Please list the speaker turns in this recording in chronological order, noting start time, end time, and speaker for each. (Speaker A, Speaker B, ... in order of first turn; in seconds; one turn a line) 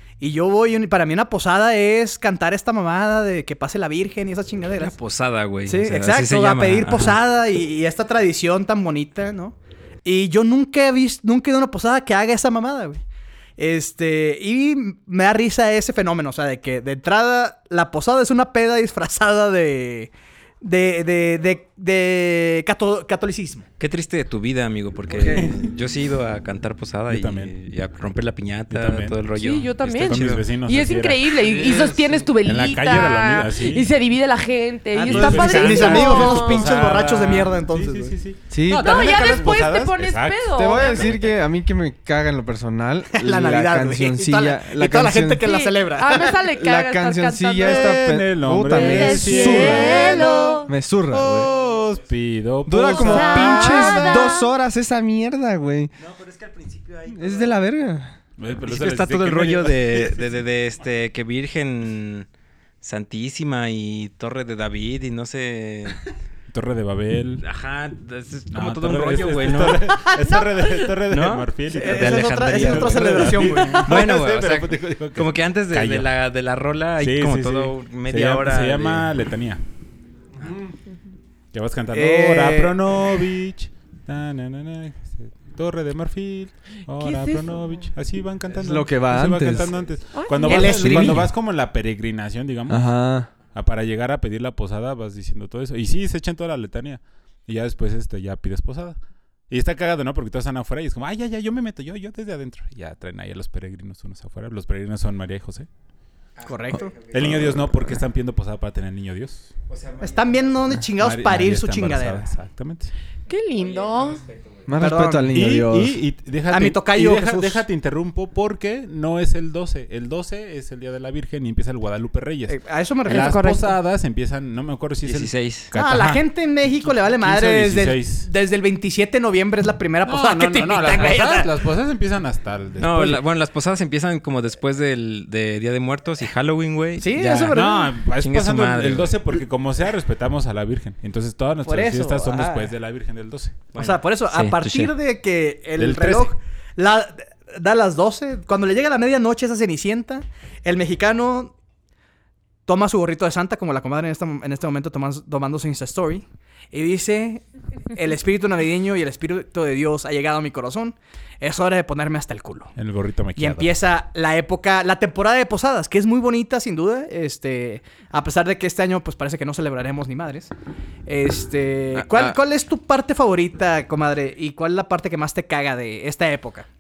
Speaker A: 0.2-4.9
Speaker B: 4.8-7.2
Speaker A: 5.7-13.0
Speaker A: 13.6-20.1
Speaker A: 20.6-23.7
Speaker B: 23.8-30.5
Speaker C: 27.1-27.5
Speaker C: 28.7-29.2
Speaker D: 29.4-36.8
Speaker C: 29.8-31.4
Speaker E: 31.4-32.2
Speaker C: 32.4-33.9
Speaker A: 34.9-38.1
Speaker C: 35.0-41.3
Speaker E: 38.5-39.1
Speaker D: 38.7-41.2
Speaker E: 40.6-45.5
Speaker A: 43.1-46.4
Speaker D: 45.4-48.0
Speaker E: 46.2-51.5
Speaker C: 47.6-54.2
Speaker D: 48.7-50.7
Speaker E: 52.7-55.9
Speaker D: 52.9-54.5
Speaker B: 56.0-57.4
Speaker E: 57.1-58.1
Speaker C: 58.4-60.4
Speaker B: 58.7-62.3
Speaker B: 62.8-66.1
Speaker C: 66.5-67.4
Speaker B: 67.4-69.9
Speaker C: 68.5-76.1
Speaker A: 69.9-70.7
Speaker B: 71.1-79.1
Speaker A: 71.7-74.1
Speaker C: 77.0-79.6
Speaker C: 81.5-99.0
Speaker A: 81.9-82.8
Speaker D: 86.9-87.6
Speaker E: 88.6-89.7
Speaker D: 90.1-91.0
Speaker A: 90.5-91.3
Speaker E: 90.6-91.3
Speaker E: 92.7-93.3
Speaker C: 99.5-105.7
Speaker B: 106.4-107.9
Speaker A: 106.5-107.0
Speaker C: 107.1-109.5
Speaker B: 109.7-110.7
Speaker A: 110.0-112.3
Speaker C: 111.0-112.9
Speaker D: 113.3-114.2
Speaker B: 113.6-114.7
Speaker E: 114.7-116.0
Speaker A: 114.8-115.4
Speaker C: 115.3-126.2
Speaker A: 116.5-117.7
Speaker A: 122.5-123.5
Speaker D: 123.1-123.8
Speaker B: 125.0-125.7
Speaker A: 125.7-131.6
Speaker C: 126.8-128.3
Speaker C: 130.0-133.2
Speaker B: 132.8-139.2
Speaker A: 137.0-137.9
Speaker C: 137.5-143.7
Speaker A: 141.7-142.7
Speaker B: 143.7-144.9
Speaker A: 143.8-151.5
Speaker C: 145.8-146.3
Speaker A: 152.7-157.4
Speaker A: 157.9-162.7
Speaker C: 162.8-163.7
Speaker A: 163.4-170.5
Speaker A: 171.1-176.7
Speaker E: 172.0-172.4